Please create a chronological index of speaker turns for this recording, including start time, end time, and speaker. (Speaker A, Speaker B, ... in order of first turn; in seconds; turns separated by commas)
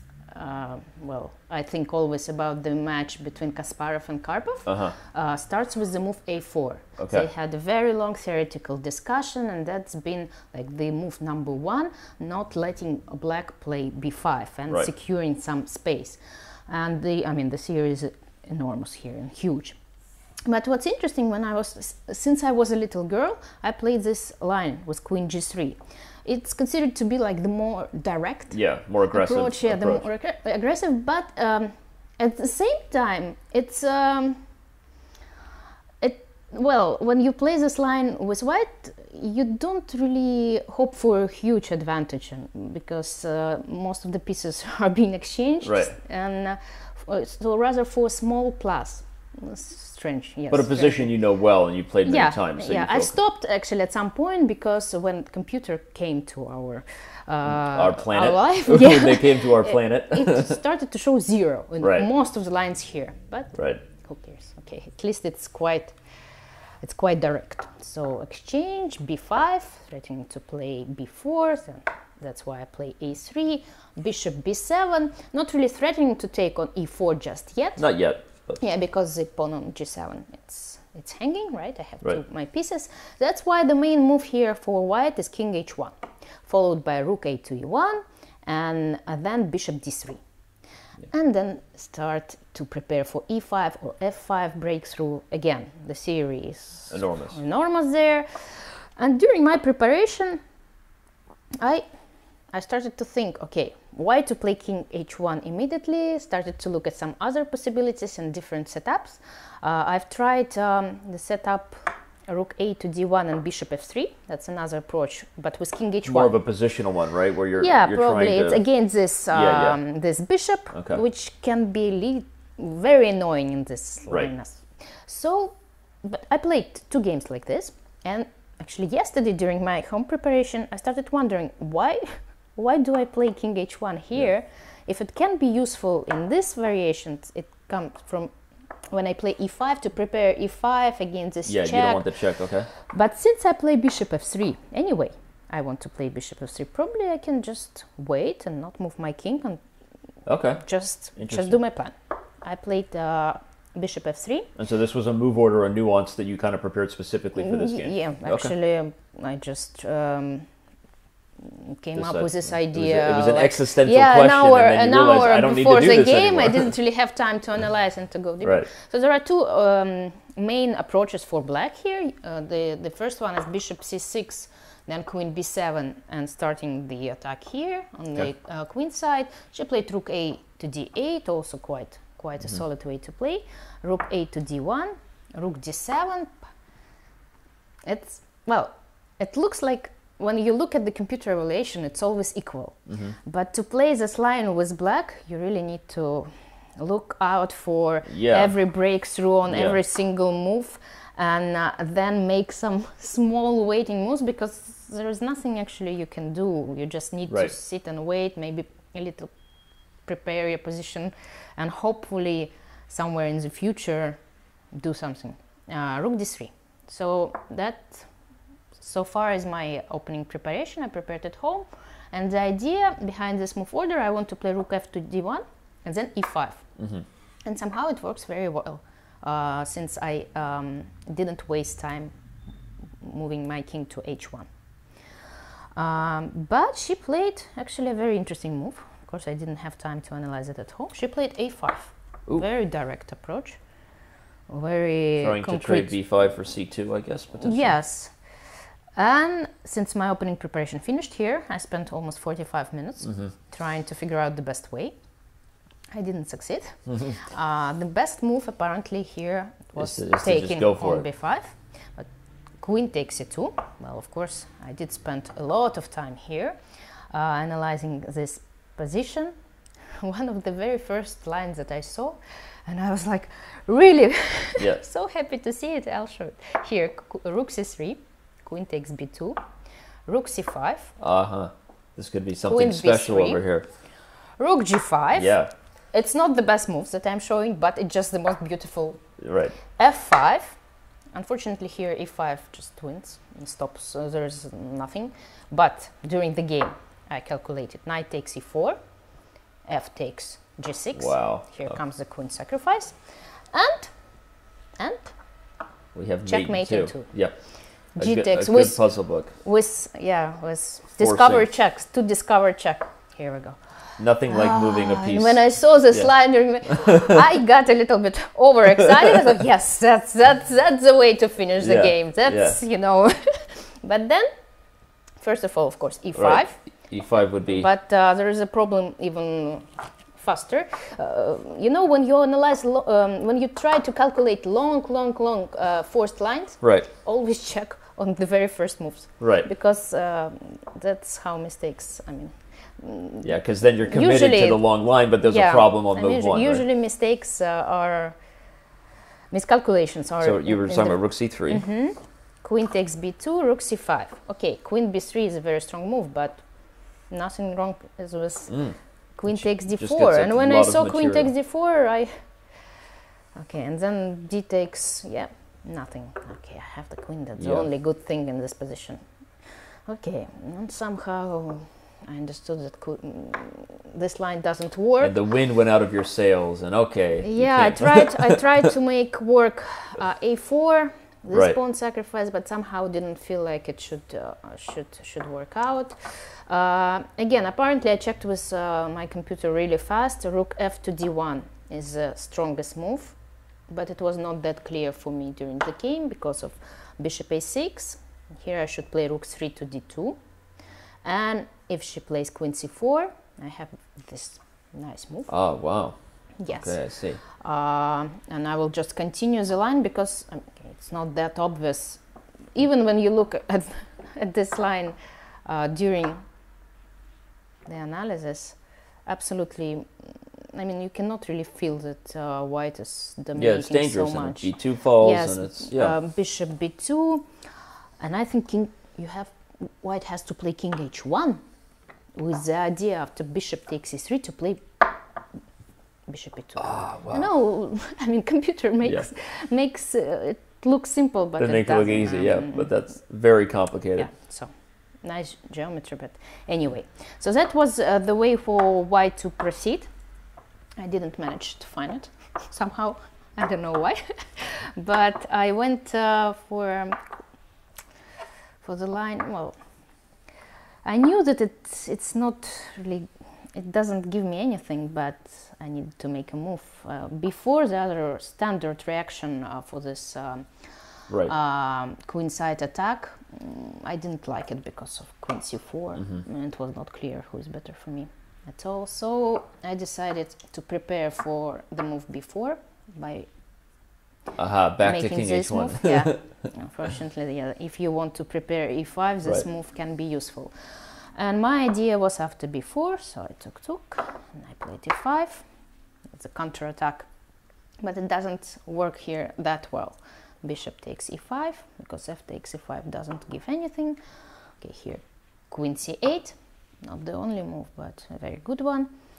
Speaker A: 0.3-19.8, Speaker B: 4.7-4.9, Speaker B: 7.0-7.3, Speaker A: 20.4-28.6, Speaker B: 28.5-30.0, Speaker A: 29.1-34.4, Speaker A: 36.0-51.1, Speaker B: 45.6-45.9, Speaker B: 50.5-53.1, Speaker A: 52.0-66.0, Speaker B: 57.5-60.6, Speaker B: 61.8-62.0, Speaker B: 63.5-63.8, Speaker A: 66.8-77.8, Speaker B: 77.8-78.6, Speaker A: 78.6-90.2, Speaker A: 91.1-100.4, Speaker B: 96.9-97.4, Speaker A: 101.6-101.9, Speaker A: 102.5-116.3, Speaker B: 116.1-118.6, Speaker A: 117.5-138.3, Speaker B: 119.3-119.8, Speaker B: 120.7-121.0, Speaker A: 138.9-142.1, Speaker B: 141.5-142.7, Speaker A: 142.7-149.6, Speaker B: 150.2-150.6, Speaker A: 150.6-154.5, Speaker B: 151.2-151.6, Speaker B: 154.6-158.5, Speaker A: 157.4-160.5, Speaker A: 161.4-186.4, Speaker B: 161.9-166.7, Speaker B: 168.4-168.7, Speaker A: 187.8-209.3, Speaker B: 192.9-193.2, Speaker B: 198.1-198.5, Speaker B: 199.5-199.8, Speaker A: 210.0-214.2, Speaker A: 214.7-218.1, Speaker A: 218.8-226.7, Speaker B: 226.8-227.0, Speaker A: 227.4-232.1, Speaker A: 233.0-234.5, Speaker A: 235.7-243.6, Speaker A: 244.5-245.9, Speaker B: 245.2-247.7, Speaker A: 247.4-248.1, Speaker A: 248.9-254.9, Speaker B: 253.0-253.3, Speaker A: 255.9-262.1, Speaker B: 256.9-257.2, Speaker B: 259.8-261.1, Speaker A: 262.6-266.6, Speaker A: 267.1-269.3, Speaker A: 270.0-279.4, Speaker A: 280.1-280.9, Speaker B: 281.0-283.6, Speaker A: 282.4-283.4, Speaker A: 284.4-285.3, Speaker B: 285.1-285.5, Speaker A: 285.9-289.0, Speaker B: 289.2-289.6, Speaker A: 289.7-290.6, Speaker A: 291.1-298.8, Speaker A: 299.6-303.0, Speaker B: 300.9-301.8, Speaker A: 303.5-303.9, Speaker A: 304.8-305.1, Speaker B: 305.9-309.3, Speaker A: 306.2-307.1, Speaker A: 307.9-313.6, Speaker B: 311.0-311.5, Speaker B: 314.0-316.1, Speaker A: 314.3-324.3, Speaker B: 316.6-317.2, Speaker B: 321.6-322.6, Speaker A: 325.2-326.6, Speaker B: 326.1-327.7, Speaker A: 327.5-344.6, Speaker B: 336.6-336.9, Speaker B: 339.2-339.5, Speaker B: 343.2-346.6, Speaker A: 345.3-348.2, Speaker A: 349.3-356.4, Speaker B: 350.2-351.6, Speaker A: 357.1-362.3, Speaker B: 358.5-361.3, Speaker A: 363.3-369.0, Speaker B: 367.4-367.7, Speaker A: 369.9-375.1, Speaker B: 375.0-378.4, Speaker A: 377.2-393.2, Speaker A: 393.7-400.2, Speaker A: 401.0-405.3, Speaker B: 405.3-407.2, Speaker A: 406.4-412.0, Speaker A: 412.5-416.2, Speaker A: 417.6-427.3, Speaker B: 423.4-425.9, Speaker A: 428.0-431.4, Speaker A: 432.1-434.9, Speaker A: 436.1-442.7, Speaker B: 436.6-437.2, Speaker B: 441.4-444.1, Speaker A: 444.0-449.9, Speaker A: 450.8-457.0, Speaker A: 458.6-459.6, Speaker A: 460.8-483.3, Speaker B: 484.4-486.5, Speaker A: 484.8-495.5, Speaker A: 496.1-497.1, Speaker A: 497.8-504.0, Speaker A: 504.6-508.9